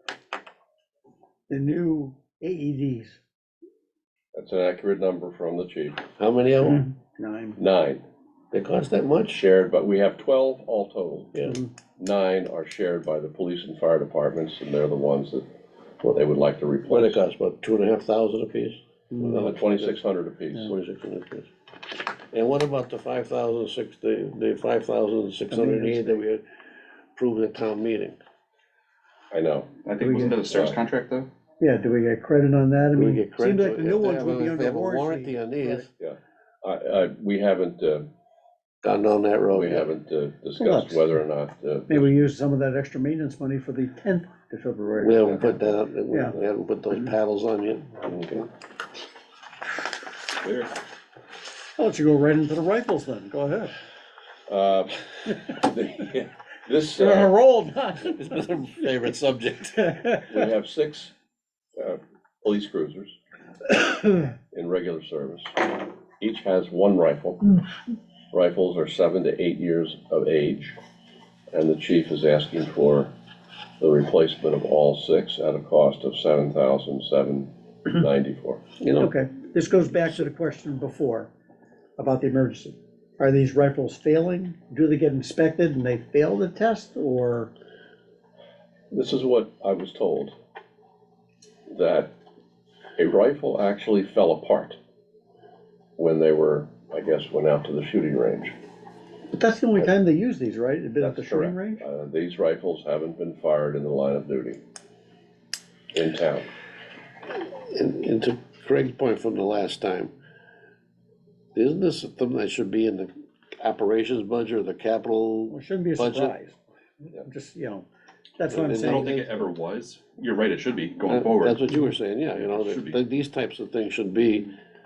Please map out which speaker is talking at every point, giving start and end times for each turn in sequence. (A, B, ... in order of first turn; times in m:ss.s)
0:01.5-0:03.2 A
0:04.4-0:06.1 B
0:06.2-0:06.8 C
0:06.6-0:07.6 A
0:07.6-0:08.0 B
0:08.5-0:09.4 C
0:09.3-0:11.5 B
0:11.4-0:11.6 C
0:12.0-0:15.5 B
0:16.0-0:17.2 B
0:16.9-0:20.0 C
0:19.3-0:20.7 B
0:20.5-0:21.5 C
0:22.3-0:26.4 C
0:25.5-0:26.2 A
0:27.2-0:28.2 C
0:29.3-0:29.8 B
0:29.8-0:31.3 D
0:30.0-0:30.6 A
0:30.5-0:30.8 B
0:31.6-0:35.9 A
0:33.0-0:35.9 C
0:36.0-0:38.1 B
0:38.8-0:39.9 C
0:39.5-0:42.1 B
0:40.6-0:41.0 A
0:41.9-0:46.3 A
0:45.0-0:48.5 C
0:51.8-0:53.7 A
0:54.5-0:57.3 B
0:56.9-0:58.2 A
0:58.0-1:00.1 C
0:59.9-1:00.3 A
1:00.3-1:01.1 B
1:01.8-1:03.2 B
1:04.5-1:07.6 B
1:08.3-1:10.8 B
1:11.5-1:13.1 B
1:13.8-1:18.7 B
1:18.8-1:19.1 C
1:19.0-1:21.3 A
1:22.0-1:27.5 A
1:28.9-1:30.3 B
1:31.7-1:32.1 B
1:33.0-1:34.8 B
1:36.0-1:38.5 B
1:39.3-1:41.8 A
1:41.0-1:44.6 B
1:45.9-1:46.5 B
1:47.6-1:50.1 C
1:51.6-1:56.3 C
1:55.5-1:56.6 A
1:57.1-1:57.9 A
1:58.4-1:59.4 A
1:58.5-1:59.1 C
1:58.8-2:01.6 D
2:01.1-2:04.5 C
2:02.4-2:03.0 D